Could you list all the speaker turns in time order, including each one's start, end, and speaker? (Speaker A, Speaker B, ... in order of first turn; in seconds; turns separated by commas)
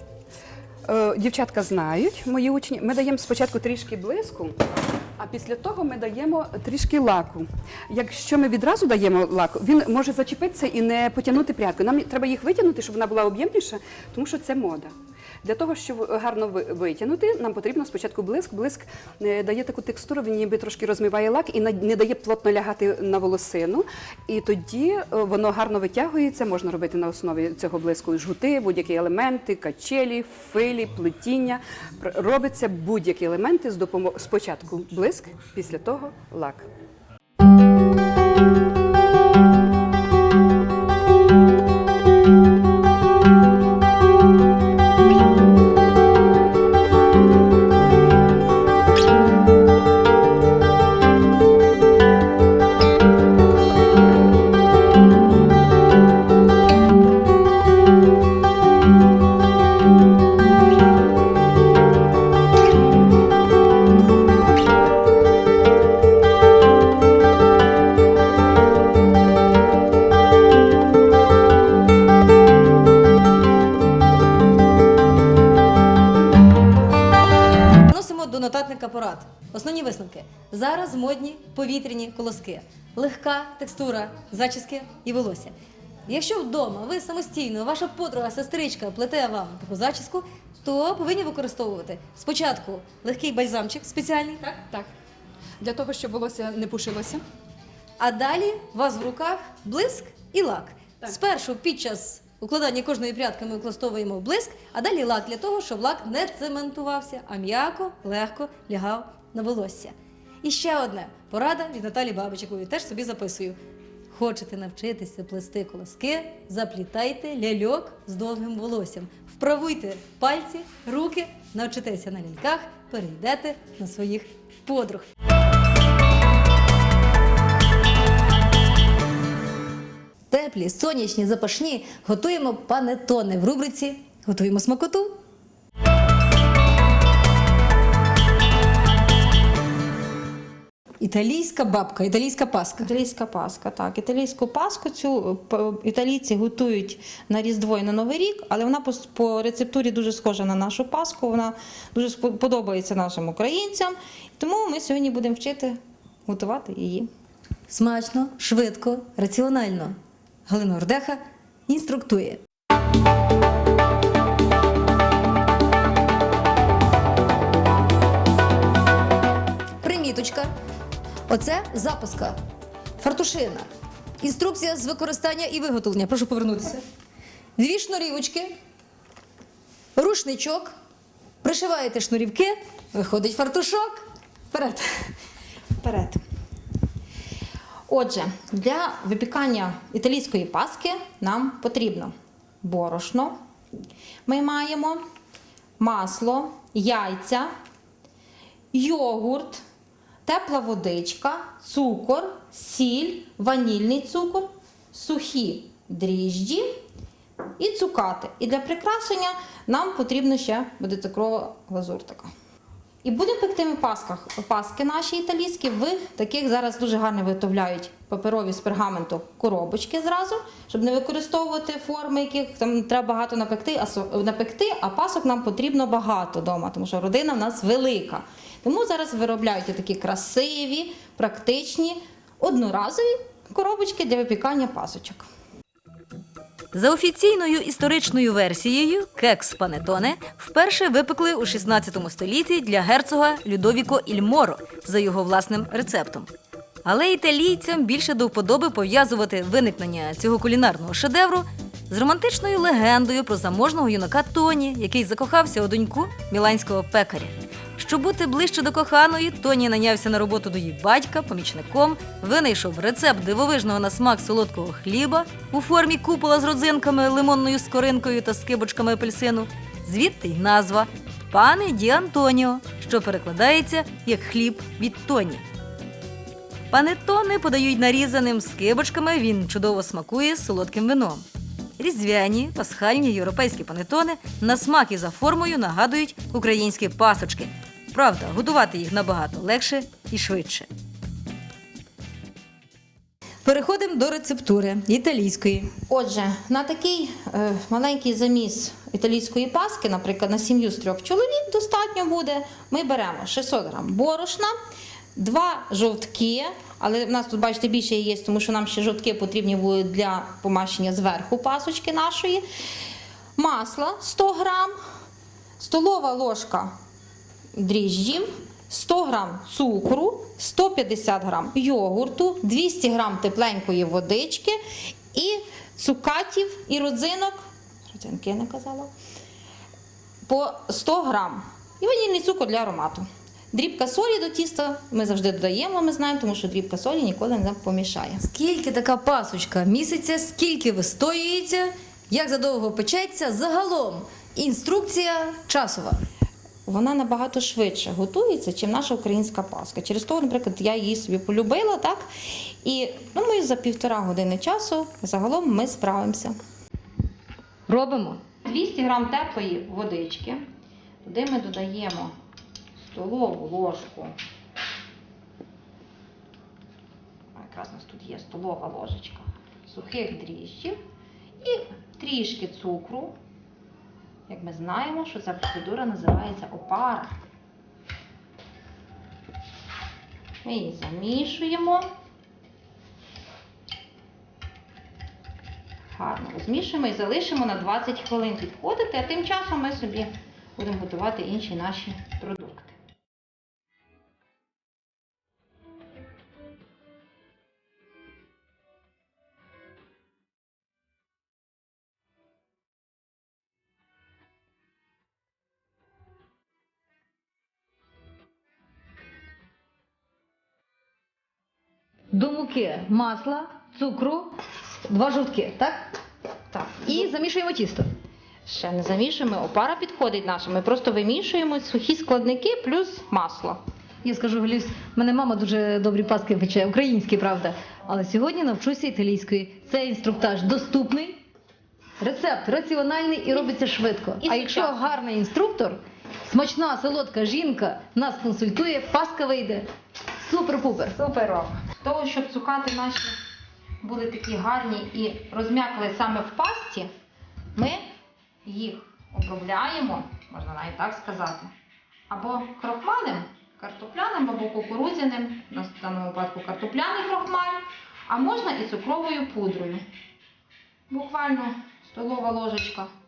Speaker A: 0.9-36.7, Speaker B: 77.8-85.5, Speaker B: 86.1-94.6, Speaker A: 95.6-97.2, Speaker B: 98.0-113.6, Speaker B: 114.1-125.1, Speaker B: 130.3-135.2, Speaker B: 141.0-142.9, Speaker C: 142.8-157.1, Speaker B: 157.7-162.4, Speaker B: 169.8-170.5, Speaker B: 171.3-172.4, Speaker B: 173.0-176.8, Speaker B: 177.6-178.5, Speaker B: 180.0-180.7, Speaker B: 181.4-185.1, Speaker C: 185.8-186.2, Speaker C: 187.9-193.4, Speaker C: 194.3-195.0, Speaker C: 195.8-197.5, Speaker C: 198.7-199.6, Speaker C: 200.3-206.7, Speaker C: 207.6-212.3, Speaker C: 213.0-235.3, Speaker B: 236.7-246.3, Speaker B: 246.8-275.4, Speaker B: 276.7-281.3, Speaker B: 281.8-290.7, Speaker B: 293.4-295.7, Speaker C: 295.9-304.6, Speaker C: 305.2-312.5, Speaker C: 313.4-314.8, Speaker C: 315.6-316.8, Speaker C: 317.6-324.6, Speaker C: 325.1-328.9, Speaker C: 330.3-338.2, Speaker B: 338.2-346.0, Speaker C: 346.7-356.4, Speaker B: 357.7-358.2, Speaker C: 358.4-360.4, Speaker C: 361.0-362.1, Speaker C: 362.8-364.2, Speaker C: 367.4-370.8, Speaker C: 371.4-373.1, Speaker C: 374.3-377.1, Speaker C: 380.4-381.9, Speaker C: 385.9-392.8, Speaker B: 412.1-415.9, Speaker C: 416.5-417.1, Speaker B: 416.9-417.9, Speaker C: 418.5-423.6, Speaker B: 424.0-431.2, Speaker B: 432.0-439.7, Speaker C: 434.2-434.8, Speaker B: 440.2-441.0, Speaker C: 440.9-443.2, Speaker C: 443.8-446.9, Speaker C: 447.6-447.9, Speaker C: 448.4-451.5, Speaker C: 452.1-459.9, Speaker C: 460.9-462.9